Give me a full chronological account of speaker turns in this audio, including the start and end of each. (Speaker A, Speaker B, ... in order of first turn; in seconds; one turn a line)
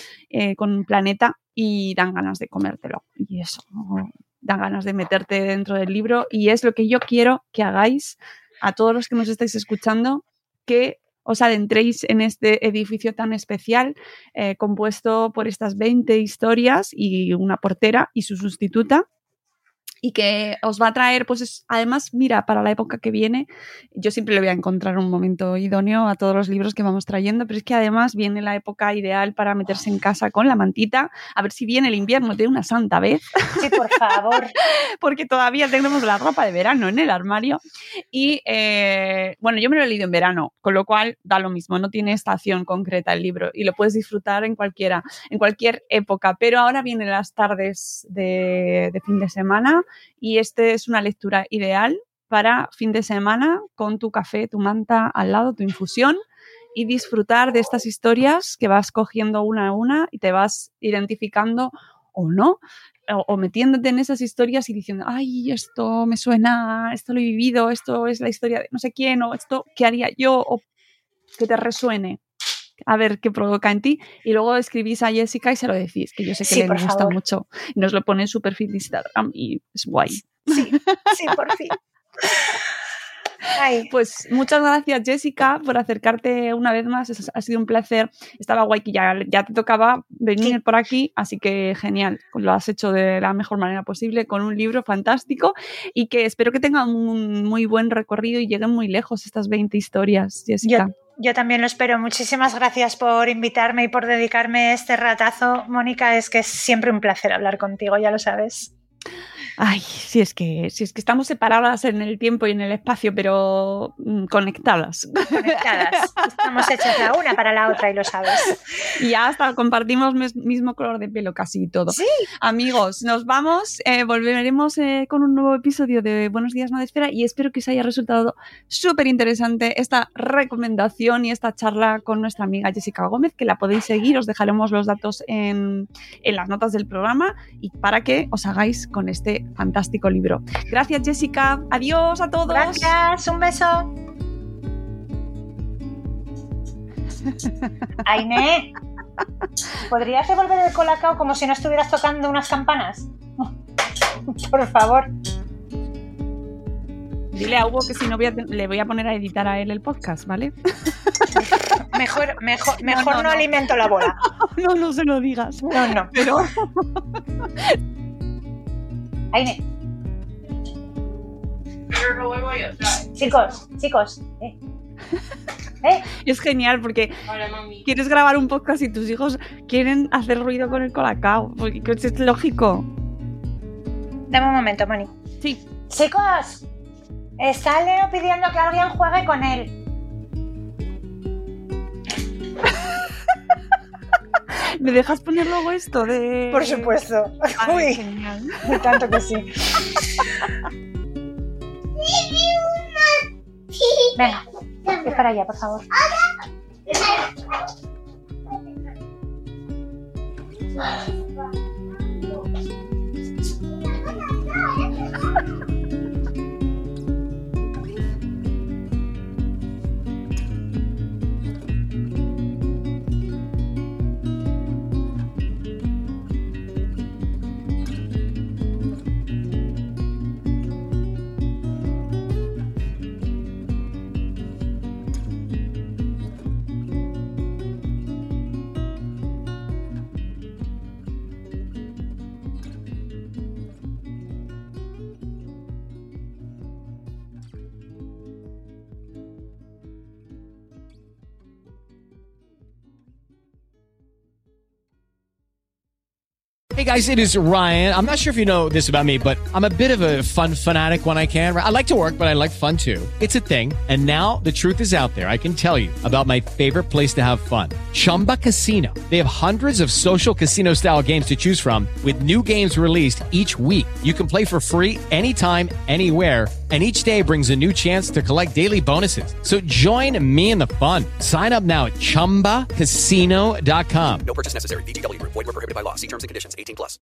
Speaker A: 0.3-19.0
Speaker A: 20.0-33.8
Speaker B: 33.6-34.5
Speaker A: 34.6-37.6
Speaker A: 38.1-56.2
Speaker A: 56.7-70.6
Speaker A: 71.4-72.2
Speaker A: 72.8-81.3
Speaker B: 76.5-77.2
Speaker B: 80.5-81.8
Speaker B: 83.5-83.9
Speaker A: 83.9-100.9
Speaker B: 100.6-108.7
Speaker A: 109.6-117.0
Speaker B: 115.3-118.9
Speaker A: 119.0-142.9
Speaker B: 121.9-122.2
Speaker B: 142.5-143.9
Speaker B: 148.0-148.7
Speaker B: 149.8-153.5
Speaker B: 154.3-155.1
Speaker A: 157.3-161.3
Speaker B: 161.8-164.2
Speaker A: 162.8-167.8
Speaker B: 165.7-166.4
Speaker B: 169.3-169.6
Speaker B: 173.1-174.6
Speaker B: 175.8-176.1
Speaker A: 176.2-182.9
Speaker B: 184.3-185.1
Speaker B: 185.9-186.6
Speaker B: 187.4-189.7
Speaker A: 194.5-197.0
Speaker B: 196.5-198.0
Speaker A: 197.6-199.0
Speaker B: 198.6-200.3
Speaker B: 204.1-205.9
Speaker C: 256.7-284.2
Speaker D: 284.2-287.0